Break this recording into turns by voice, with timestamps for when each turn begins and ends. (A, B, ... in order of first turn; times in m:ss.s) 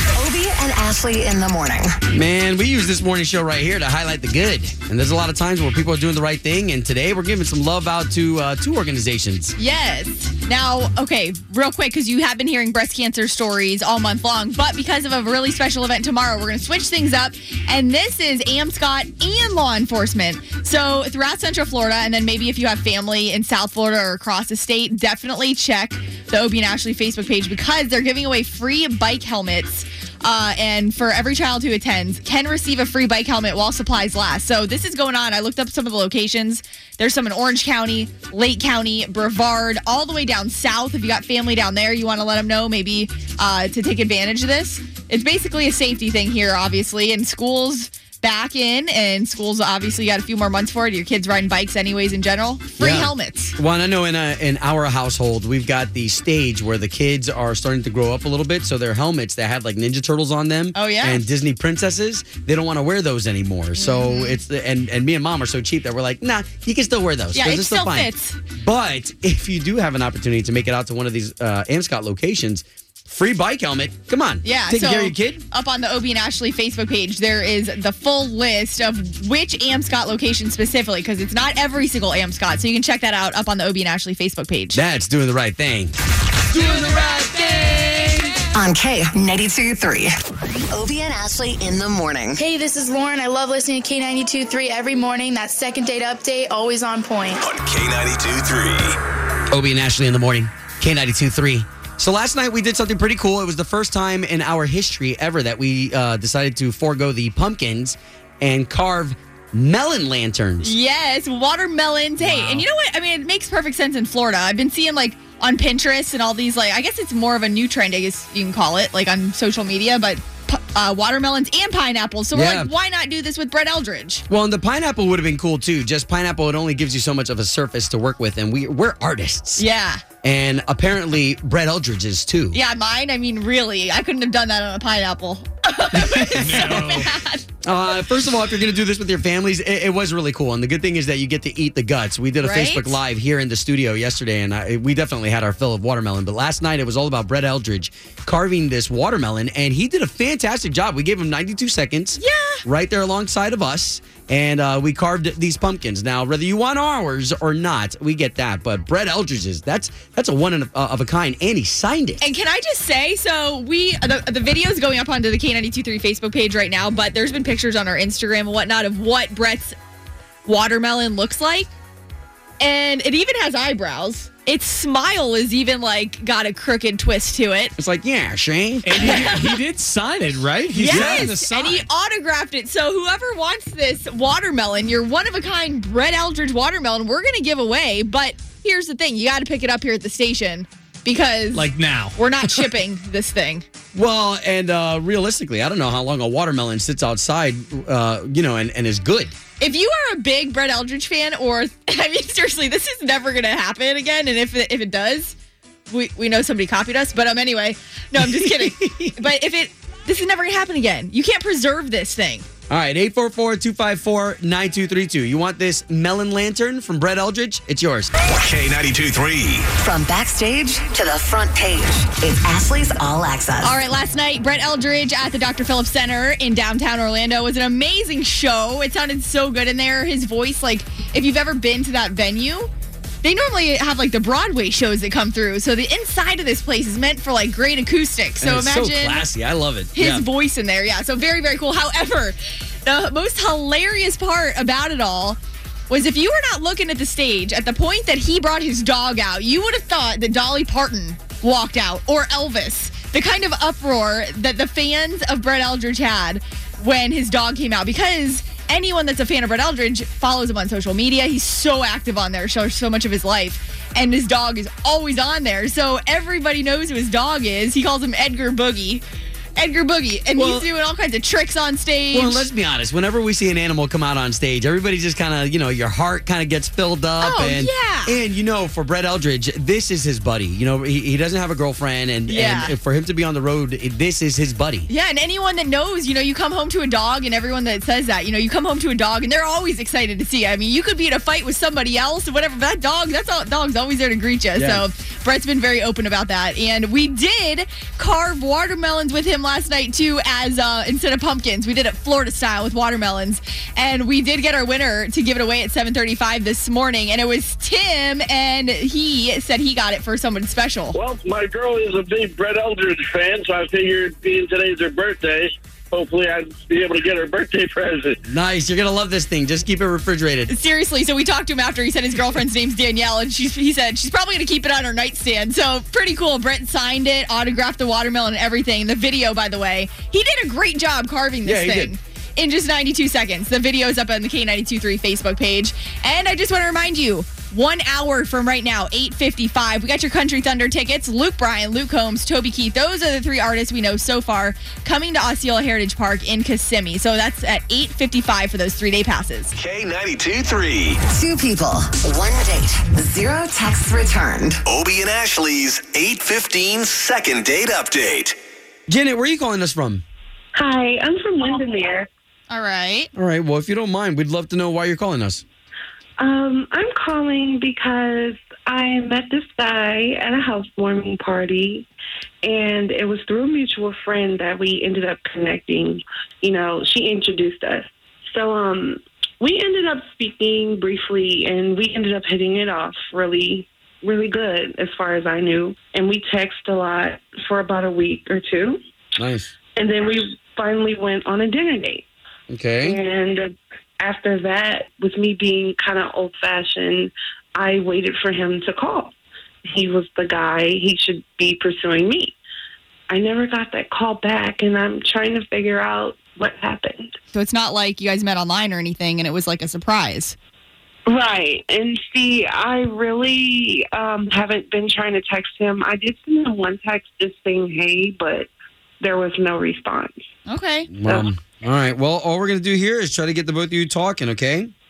0:00.1-0:02.0 A
0:02.1-0:09.5 B
0:09.6-0:53.6 C
0:52.8-1:15.4 B
1:00.7-1:01.2 C
1:03.8-1:04.4 C
1:07.3-1:08.4 C
1:14.4-1:24.8 C
1:24.7-1:26.0 B
1:26.5-1:27.2 B
1:28.5-1:30.1 A
1:30.7-1:32.4 A
1:32.4-1:37.4 D
1:37.4-1:39.0 E
1:39.5-1:50.7 B
1:50.6-2:04.2 C
1:52.3-1:52.6 F
2:02.3-2:02.7 B
2:04.3-2:09.6 B
2:09.6-2:10.0 C
2:10.2-2:12.6 B
2:12.5-2:17.5 C
2:15.9-2:16.9 B
2:16.4-2:17.1 F
2:17.6-2:42.2 B
2:22.4-2:23.0 C
2:32.2-2:32.6 C
2:42.2-2:49.8 C
2:50.4-2:51.7 C
2:52.6-2:57.7 C
2:57.8-2:59.3 B
2:58.8-3:01.8 F
2:59.0-2:59.6 C
3:00.7-3:13.6 C
3:00.9-3:01.3 B
3:11.5-3:12.6 F
3:13.9-3:19.4 B
3:19.6-3:25.3 C
3:25.9-3:32.4 C
3:28.1-3:29.2 B
3:32.7-3:38.1 B
3:38.4-3:39.7 E
3:39.8-3:43.8 A
3:43.6-3:52.7 C
3:53.2-3:59.3 C
3:58.4-4:00.2 B
3:59.9-4:05.4 C
4:05.9-4:29.0 C
4:29.6-4:32.5 C
4:30.4-4:30.7 B
4:32.1-4:44.9 B
4:37.2-4:38.2 C
4:42.3-4:42.7 C
4:44.9-5:11.0 C
4:54.5-4:54.8 B
5:10.9-5:18.2 G
5:18.2-5:20.5 B
5:20.5-5:49.5 C
5:31.4-5:31.9 B
5:49.5-5:51.0 E
5:51.1-5:54.6 A
5:54.6-5:58.4 E
5:58.9-6:00.0 B
6:00.5-6:02.1 H
6:02.5-6:03.1 C
6:03.1-6:05.4 B
6:06.2-6:11.9 H
6:12.4-6:28.8 H
6:29.2-6:29.5 B
6:29.8-6:32.0 H
6:32.5-6:33.0 B
6:32.8-6:39.1 H
6:39.7-6:42.4 H
6:43.1-6:47.1 H
6:47.3-6:50.4 C
6:51.1-6:58.5 H
6:59.0-7:00.2 H
7:00.5-7:00.9 C
7:00.9-7:04.7 B